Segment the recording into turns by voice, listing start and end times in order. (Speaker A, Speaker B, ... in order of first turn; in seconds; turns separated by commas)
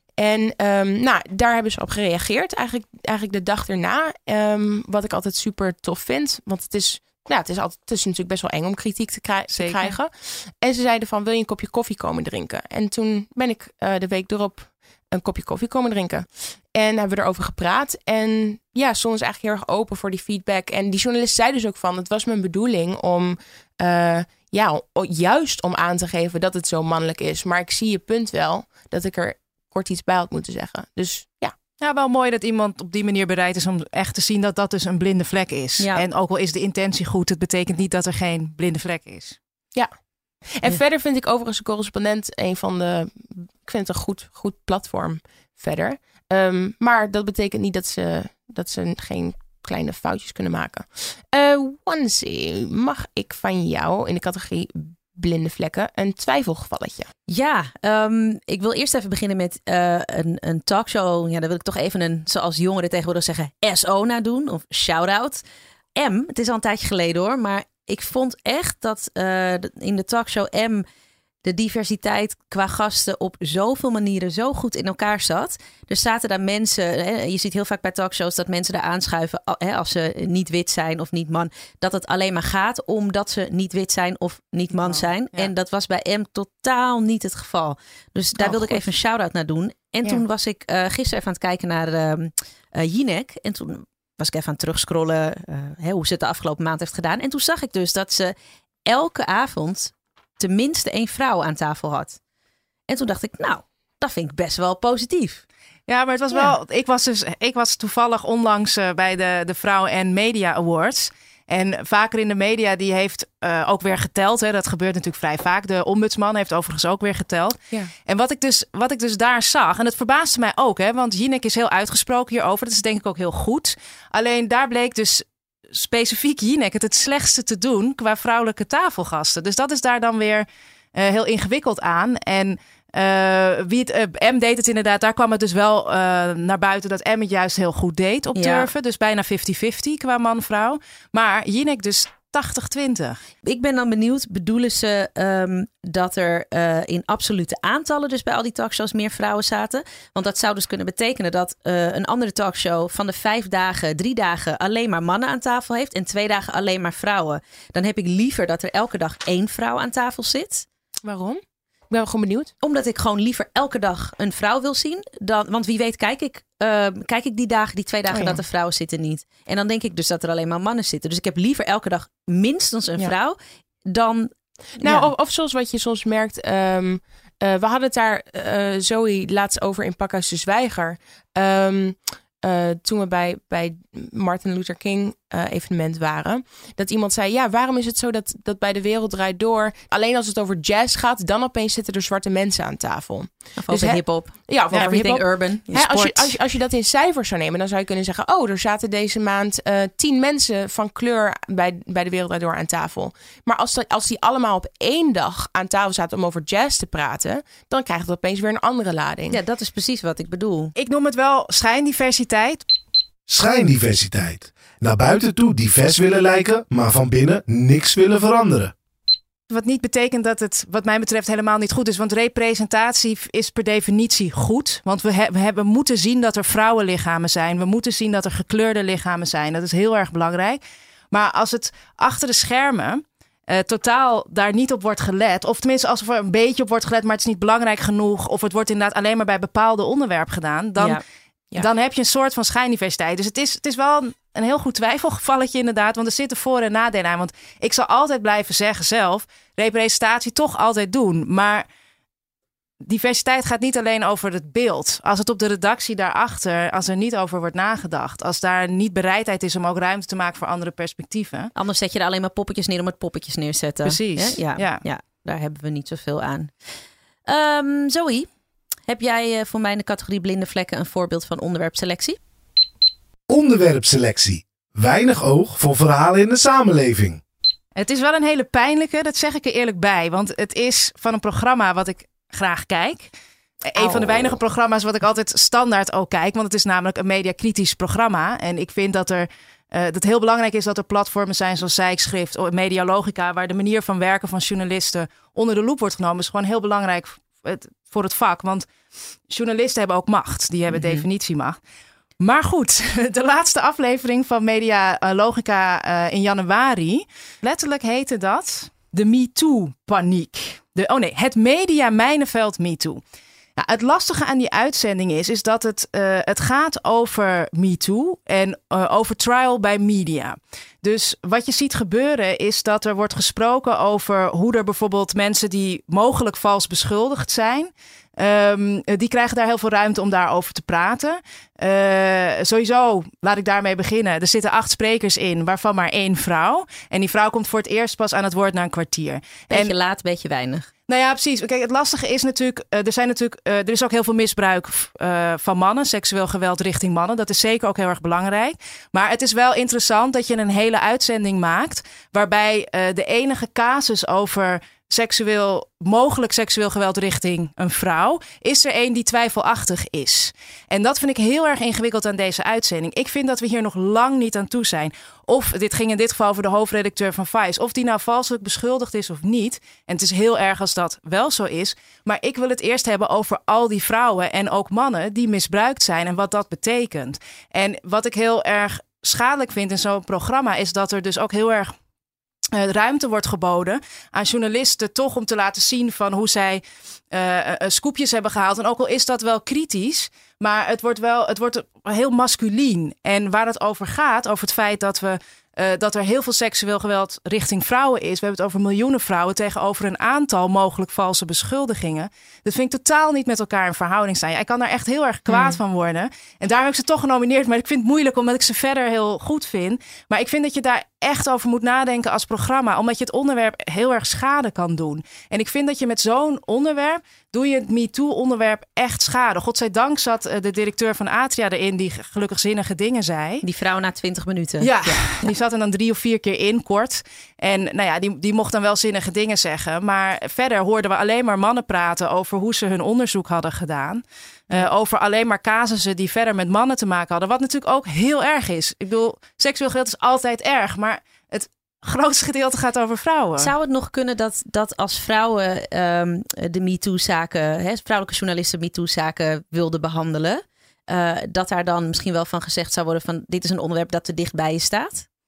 Speaker A: 0.2-31.5, Speaker B: 9.5-9.9, Speaker B: 31.8-39.4, Speaker C: 35.8-36.0, Speaker A: 40.5-57.1, Speaker C: 57.3-65.4, Speaker C: 66.0-70.8, Speaker C: 71.4-98.3, Speaker B: 84.8-85.5, Speaker B: 88.4-88.8, Speaker C: 98.8-102.2, Speaker C: 102.9-105.4, Speaker B: 105.9-143.2, Speaker C: 138.3-138.7, Speaker C: 143.4-160.7, Speaker A: 161.0-162.5, Speaker C: 162.6-173.4, Speaker A: 168.1-168.4, Speaker C: 173.9-174.3, Speaker A: 174.8-209.4, Speaker C: 193.6-196.3, Speaker C: 209.3-210.7, Speaker B: 210.8-212.6, Speaker D: 213.3-218.7, Speaker B: 219.5-230.6, Speaker B: 231.1-241.0, Speaker B: 241.6-251.6, Speaker B: 252.8-261.5, Speaker C: 261.6-266.5, Speaker B: 263.8-264.8, Speaker C: 267.3-268.3, Speaker C: 268.9-272.2, Speaker D: 273.3-277.2, Speaker B: 277.8-283.1, Speaker B: 283.7-298.7, Speaker B: 299.3-301.6, Speaker C: 300.7-301.0, Speaker B: 302.2-313.0, Speaker B: 313.6-339.7, Speaker C: 339.5-340.7, Speaker B: 340.9-381.7, Speaker B: 382.5-423.4, Speaker C: 423.4-425.3, Speaker B: 424.6-443.5, Speaker C: 443.4-455.1